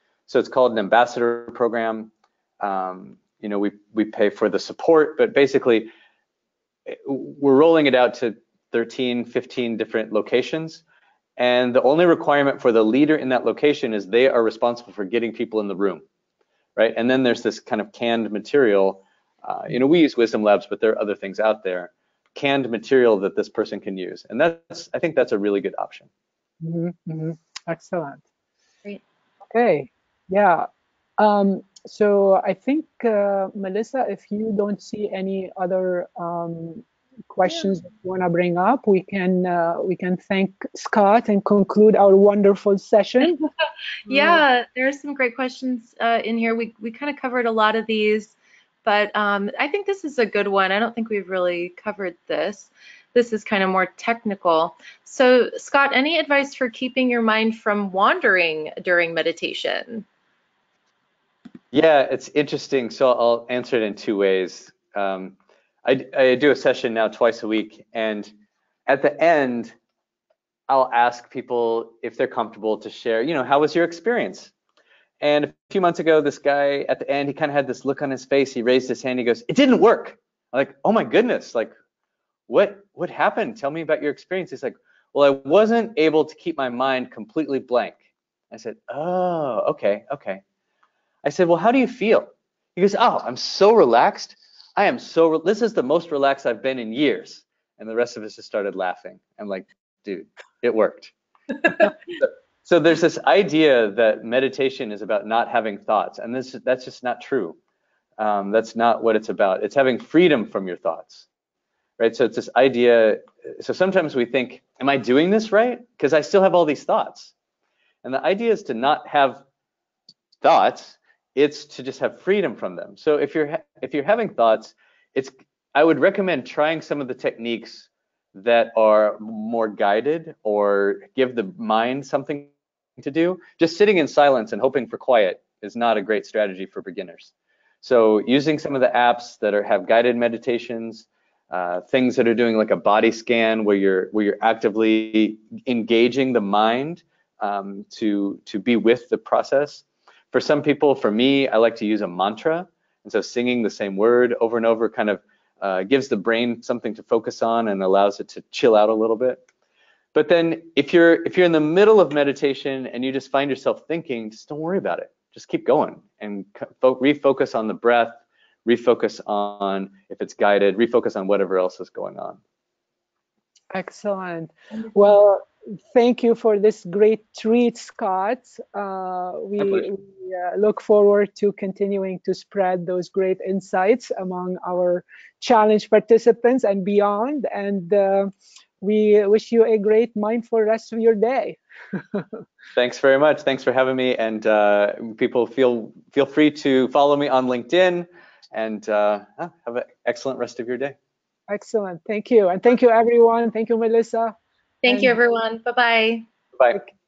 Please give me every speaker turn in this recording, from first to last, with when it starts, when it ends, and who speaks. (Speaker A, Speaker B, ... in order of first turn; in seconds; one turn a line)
Speaker A: 0.3-5.9
Speaker A: 6.9-10.8
Speaker A: 11.4-16.0
Speaker A: 16.8-26.1
Speaker B: 26.6-28.2
Speaker B: 29.5-30.7
Speaker B: 31.2-43.4
Speaker C: 44.1-60.1
Speaker B: 44.1-44.4
Speaker A: 61.7-68.3
Speaker A: 68.9-69.8
Speaker A: 70.7-74.5
Speaker A: 75.2-81.7
Speaker A: 82.5-90.4
Speaker A: 91.2-107.6
Speaker A: 108.2-111.3
Speaker A: 112.0-117.3
Speaker A: 118.0-119.4
Speaker A: 120.4-159.4
Speaker A: 160.1-172.4
Speaker B: 173.7-191.6
Speaker A: 179.6-179.9
Speaker A: 192.8-201.0
Speaker B: 201.5-204.3
Speaker C: 204.8-206.3
Speaker B: 204.9-205.2